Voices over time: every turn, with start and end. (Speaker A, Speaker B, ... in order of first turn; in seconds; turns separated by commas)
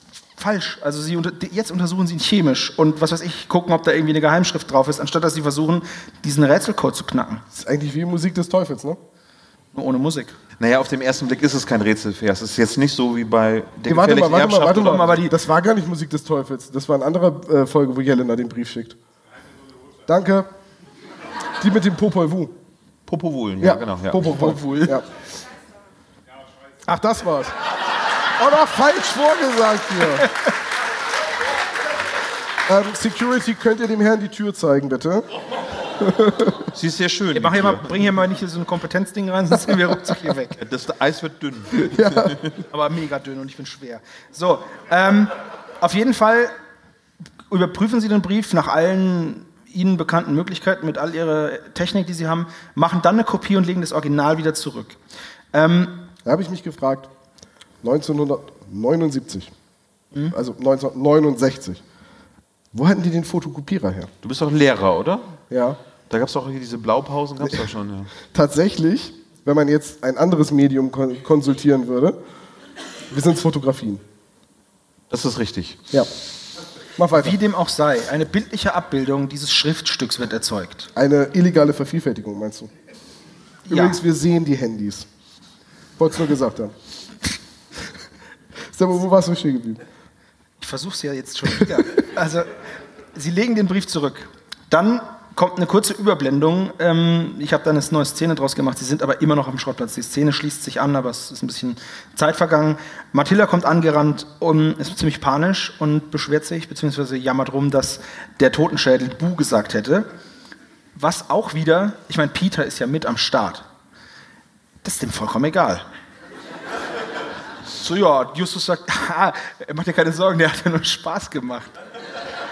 Speaker A: 0.4-7.4, Speaker B: 7.5-9.0, Speaker A: 9.7-10.3, Speaker C: 10.6-15.2, Speaker B: 13.8-19.0, Speaker A: 14.7-15.3, Speaker B: 20.1-20.5, Speaker B: 21.6-22.5, Speaker C: 23.1-24.5, Speaker B: 23.6-25.0, Speaker A: 24.3-25.0, Speaker B: 26.9-27.5, Speaker B: 28.4-30.3, Speaker B: 32.7-35.3, Speaker B: 36.0-36.6, Speaker C: 36.7-37.9, Speaker A: 37.3-40.6, Speaker C: 40.6-42.3, Speaker B: 41.8-42.5, Speaker A: 42.7-46.5, Speaker A: 47.5-55.0, Speaker A: 55.5-56.1, Speaker B: 56.2-57.1, Speaker B: 57.8-59.5, Speaker B: 60.3-61.8, Speaker B: 62.7-64.1, Speaker C: 64.2-65.3, Speaker B: 65.5-65.8, Speaker C: 66.1-68.1, Speaker B: 68.2-72.2, Speaker B: 73.1-74.0, Speaker C: 75.1-75.8, Speaker B: 77.0-77.3, Speaker A: 77.1-80.9, Speaker B: 81.0-82.7, Speaker A: 83.7-84.0, Speaker B: 83.7-85.0, Speaker B: 86.0-86.7, Speaker B: 88.7-89.8, Speaker A: 90.6-92.5, Speaker A: 93.1-110.1, Speaker A: 110.9-113.7, Speaker A: 114.8-115.8, Speaker A: 117.8-121.8